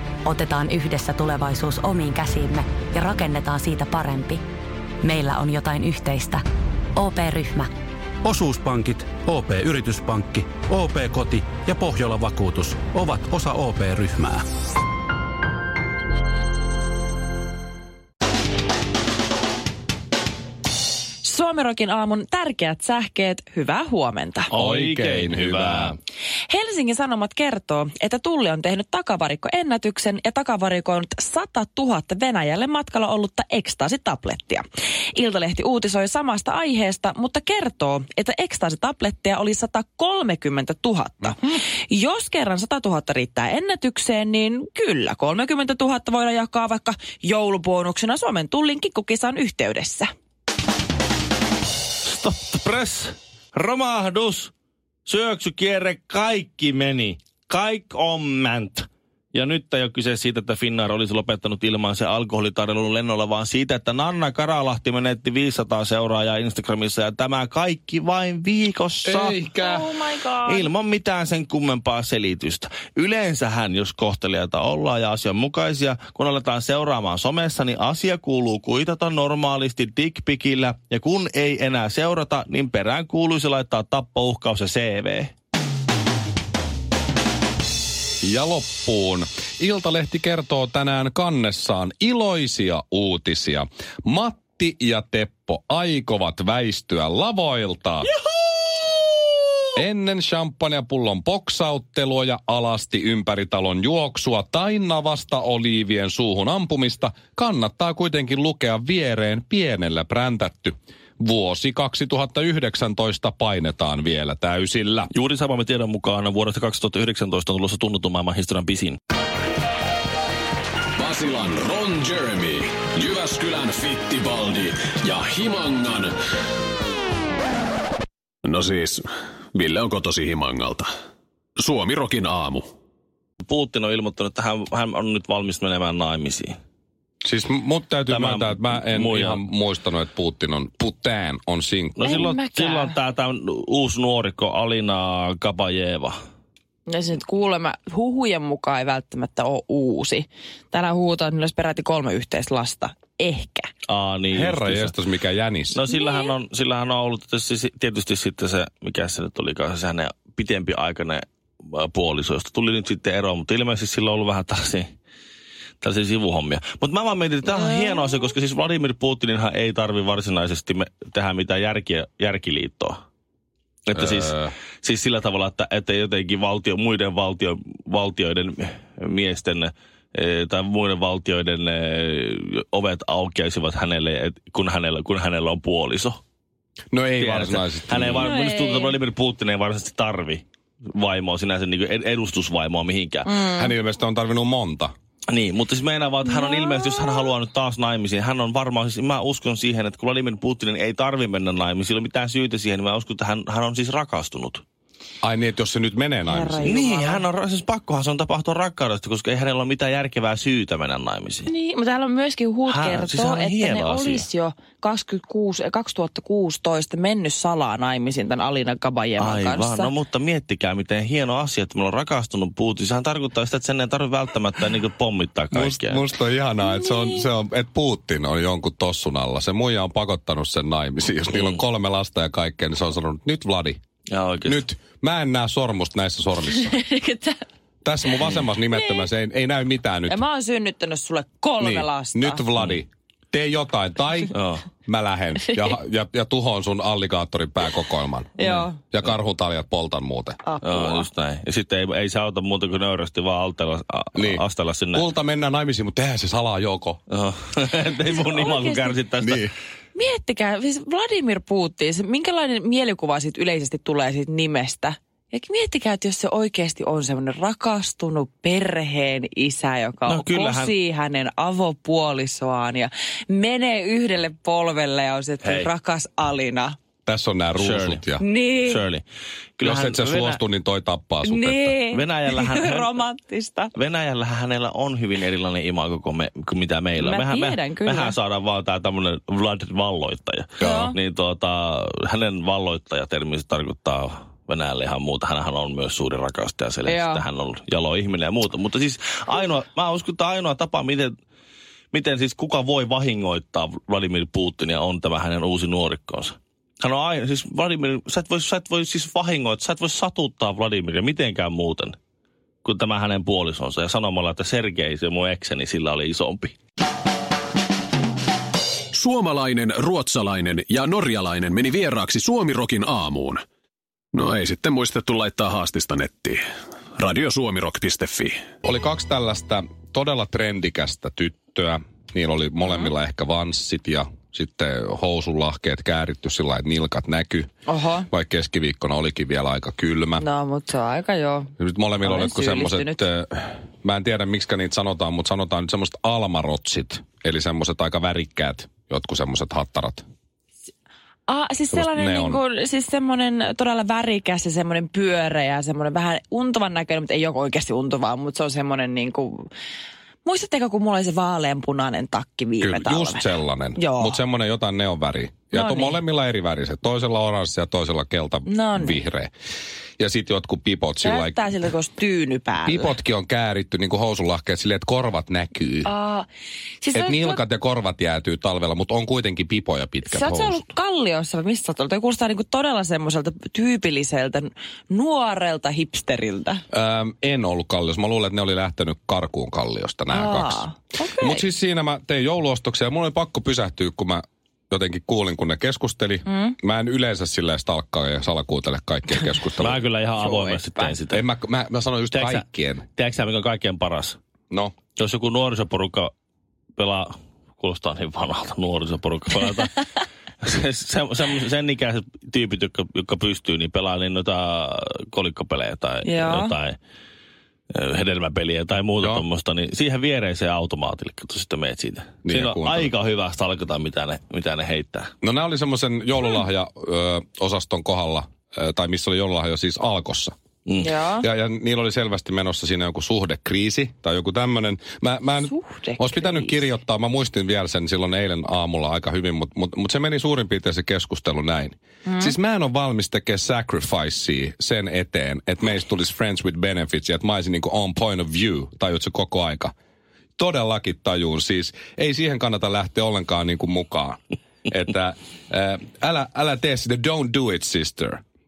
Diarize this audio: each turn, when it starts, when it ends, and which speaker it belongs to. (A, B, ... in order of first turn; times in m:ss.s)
0:00.2-0:04.4 A
0:05.0-0:06.4 A
0:07.0-0:07.7 A
0:08.2-0:14.4 B
0:21.2-0:24.5 C
0:24.5-0:26.0 D
0:24.5-0:26.0 E
0:26.5-0:50.1 C
0:52.0-0:54.5 D
0:55.0-1:09.4 D
1:09.0-1:09.9 E
1:09.6-1:10.7 C
1:10.4-1:25.3 D
1:28.2-1:38.1 E
1:39.8-1:55.1 E
1:55.1-1:59.0 D
2:01.0-2:06.1 F
2:08.4-2:10.9 F
2:11.6-2:12.6 F
2:13.4-2:16.5 D
2:17.2-2:22.2 E
2:18.1-2:19.4 D
2:21.9-2:26.2 D
2:22.0-2:23.0 C
2:26.9-2:33.7 C
2:33.9-2:35.0 D
2:34.3-2:35.8 E
2:35.7-2:44.9 D
2:35.9-2:36.3 C
2:45.8-2:53.0 D
2:47.5-2:48.1 C
2:53.9-3:06.2 D
2:53.9-2:54.5 E
3:06.9-3:08.3 E
3:07.2-3:13.3 D
3:08.2-3:09.0 C
3:13.2-3:13.7 C
3:13.4-3:14.9 E
3:15.3-3:24.6 D
3:16.2-3:17.2 C
3:25.2-3:26.7 E
3:26.2-3:27.2 C
3:26.6-3:31.5 D
3:31.5-3:39.9 C
3:32.7-3:34.3 D
3:39.2-3:46.0 D
3:45.5-3:53.8 E
3:46.6-3:47.3 C
3:51.3-3:51.6 D
3:54.1-3:54.6 D
3:54.4-3:56.8 E
3:56.5-3:57.4 C
3:57.8-4:00.2 E
3:58.7-3:59.1 C
4:00.1-4:02.5 C
4:01.6-4:04.3 E
4:02.6-4:02.8 D
4:04.3-4:04.6 D
4:04.8-4:10.4 E
4:08.4-4:08.8 C
4:10.4-4:11.1 C
4:10.6-4:15.0 D
4:14.1-4:17.0 E
4:17.1-4:19.5 D
4:18.0-4:19.0 C
4:19.2-4:19.5 E
4:20.0-4:36.8 C
4:30.1-4:30.7 D
4:35.4-4:35.7 D
4:37.1-4:38.2 E
4:37.6-4:38.0 D
4:38.2-4:38.9 C
4:38.6-4:39.0 D
4:39.6-4:40.4 D
4:39.6-4:41.8 E
4:41.2-4:43.7 C
4:41.9-4:43.0 D
4:43.8-5:01.2 D
4:47.0-4:48.2 C
4:50.6-4:50.9 E
4:50.6-4:51.0 C
4:56.8-4:57.2 C
5:01.9-5:12.0 D
5:12.6-5:16.6 D
5:18.9-5:23.4 F
5:24.1-5:26.4 F
5:27.0-5:28.4 F
5:28.6-5:37.5 E
5:32.6-5:32.9 C
5:37.7-5:38.1 C
5:38.1-5:40.2 E
5:40.2-5:43.0 C
5:41.6-5:50.0 E
5:51.3-5:59.5 C
5:51.7-5:52.4 E
6:00.2-6:04.2 C
6:02.6-6:09.3 E
6:05.5-6:06.0 C
6:08.5-6:09.0 C
6:10.0-6:11.4 E
6:11.0-6:12.9 C
6:12.6-6:15.9 E
6:15.8-6:16.3 C
6:16.8-6:17.4 C
6:16.9-6:20.7 E
6:20.0-6:26.6 C
6:26.7-6:39.9 E
6:30.1-6:31.4 C
6:36.3-6:36.6 C
6:39.6-6:41.2 D
6:40.2-6:41.0 C
6:41.1-6:42.8 E
6:42.1-6:44.2 D
6:45.0-6:46.1 D
6:46.8-6:49.8 D
6:50.4-6:56.8 D
6:56.0-6:56.6 C
6:57.7-7:05.1 D
7:02.2-7:02.9 E
7:05.2-7:10.4 E
7:10.8-7:11.3 C
7:11.2-7:29.7 E
7:15.4-7:16.7 C
7:22.1-7:22.3 C
7:30.4-7:38.2 E